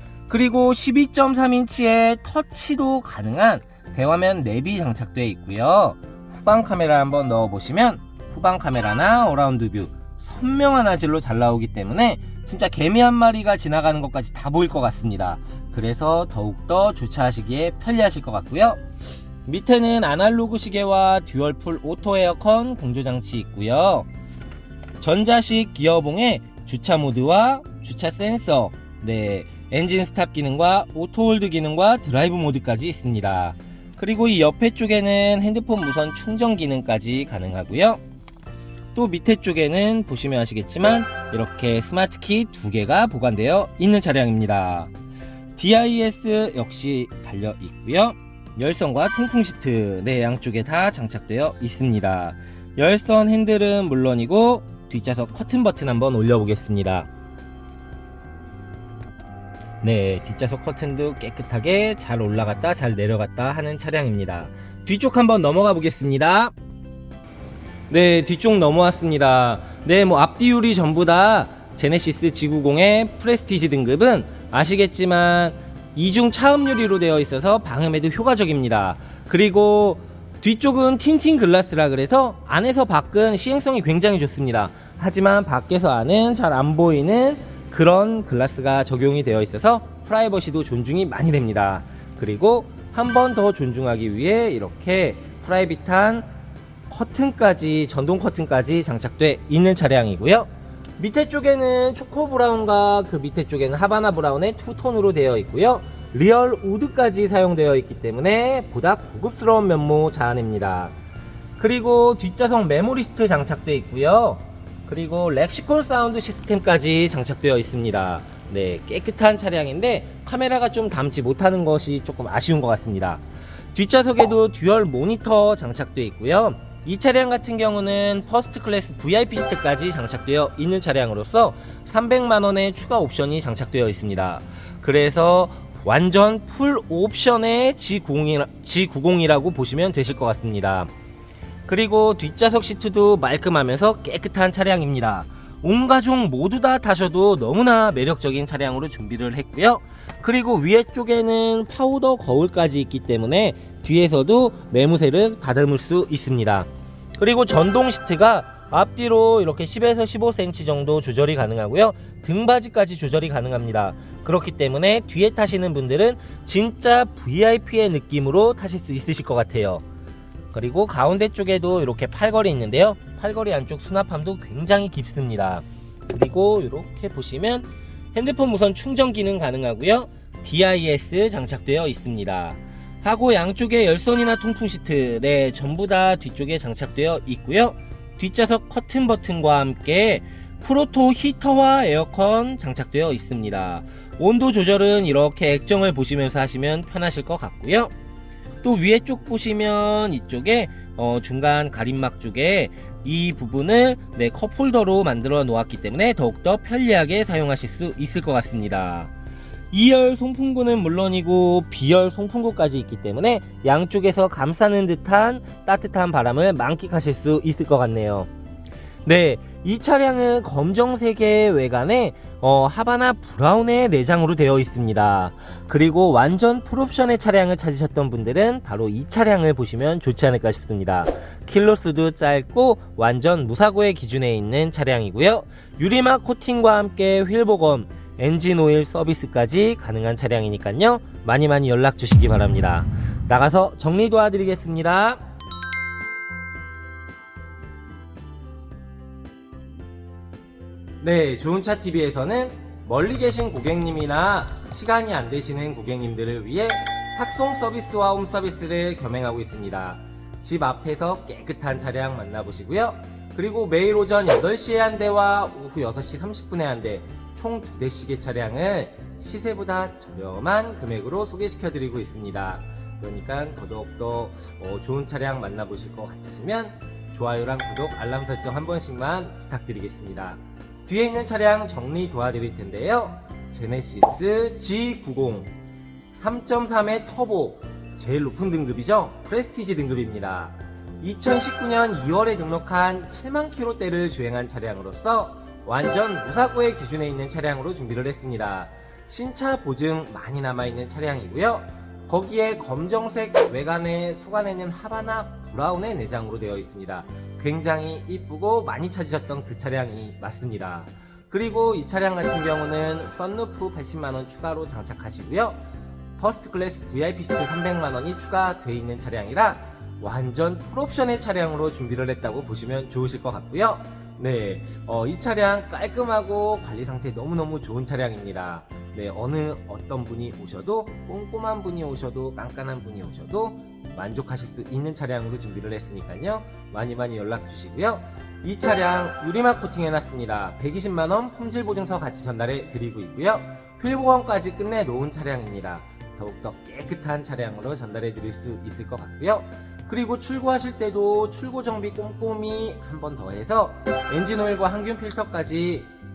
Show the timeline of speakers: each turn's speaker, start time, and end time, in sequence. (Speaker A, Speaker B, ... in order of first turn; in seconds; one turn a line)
Speaker A: 0.3-18.8
Speaker A: 19.5-24.1
Speaker A: 25.0-38.0
Speaker A: 38.9-44.9
Speaker A: 45.6-57.1
Speaker A: 59.8-66.5
Speaker A: 67.9-96.3
Speaker A: 96.9-110.9
Speaker A: 111.6-123.2
Speaker A: 123.7-140.9
Speaker A: 141.7-169.8
Speaker A: 170.5-197.9
Speaker A: 198.6-209.1
Speaker A: 209.7-218.3
Speaker A: 219.1-245.2
Speaker A: 251.0-285.5
Speaker A: 286.1-315.6
Speaker A: 316.2-355.9